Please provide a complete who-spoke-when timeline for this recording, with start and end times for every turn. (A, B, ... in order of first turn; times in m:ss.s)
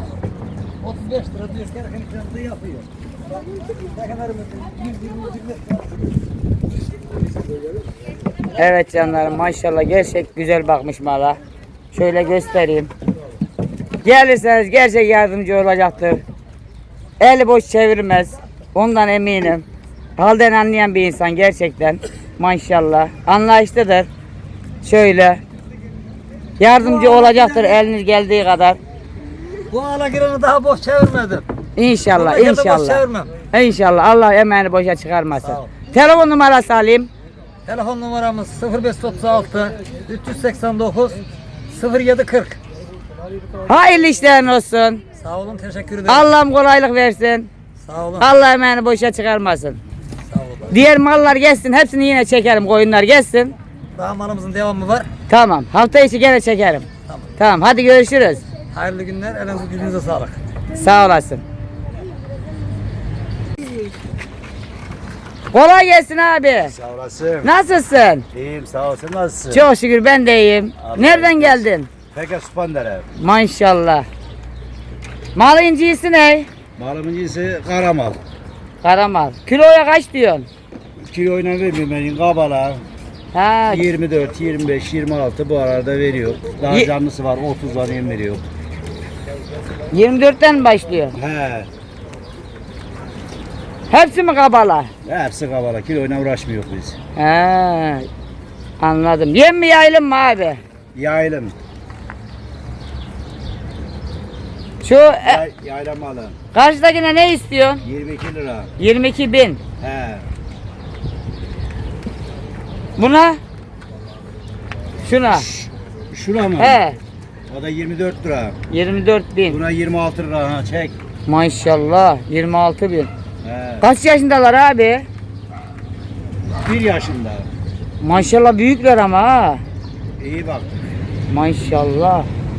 0:00.8-0:02.9 A
0:03.9-0:05.8 A
0:08.6-0:11.4 B
0:11.9-0:12.9 B
0:14.0-0:16.2 B
0:17.2-0:19.6 B
0:20.2-0:24.1 B
0:24.8-0:25.4 B
0:26.6-0:28.8 B
0:26.8-0:27.8 A
0:29.7-0:31.4 A
0:31.8-0:37.1 B
0:32.1-0:33.3 A
0:35.4-0:35.7 A
0:37.6-0:42.6 A
0:43.6-0:45.0 B
0:45.2-0:46.3 A
0:46.1-0:47.5 B
0:47.8-0:48.4 A
0:48.2-0:49.8 B
0:50.3-0:50.8 A
0:50.7-0:53.5 B
0:53.9-0:55.1 A
0:55.3-0:56.8 B
0:57.4-0:58.4 B
0:58.7-1:00.4 A
1:00.7-1:01.4 B
1:05.5-1:06.7 B
1:06.7-1:07.5 C
1:07.4-1:08.2 B
1:08.3-1:09.7 C
1:09.5-1:11.9 B
1:10.8-1:13.1 C
1:13.2-1:14.1 B
1:15.3-1:16.5 B
1:16.8-1:18.2 C
1:18.8-1:20.5 B
1:21.0-1:22.8 C
1:23.3-1:23.9 B
1:23.7-1:28.4 C
1:29.9-1:31.2 B
1:31.1-1:31.7 C
1:33.9-1:34.9 B
1:35.0-1:37.0 C
1:37.2-1:38.1 B
1:38.8-1:40.6 B
1:40.9-1:41.5 C
1:44.8-1:45.4 B
1:45.2-1:46.4 C
1:46.5-1:47.8 B
1:47.8-1:48.7 C
1:48.8-1:49.6 B
1:49.8-1:50.3 C
1:53.0-1:53.4 B
1:55.0-1:55.5 B
1:55.4-1:56.8 C
1:56.6-1:57.0 B
1:57.5-1:58.6 C
1:58.7-1:59.6 B
1:59.4-2:00.9 C
2:01.2-2:03.1 B
2:03.4-2:03.9 C
2:03.8-2:05.0 B
2:06.6-2:07.5 C
2:08.0-2:09.6 B
2:10.2-2:10.9 C
2:11.3-2:12.3 B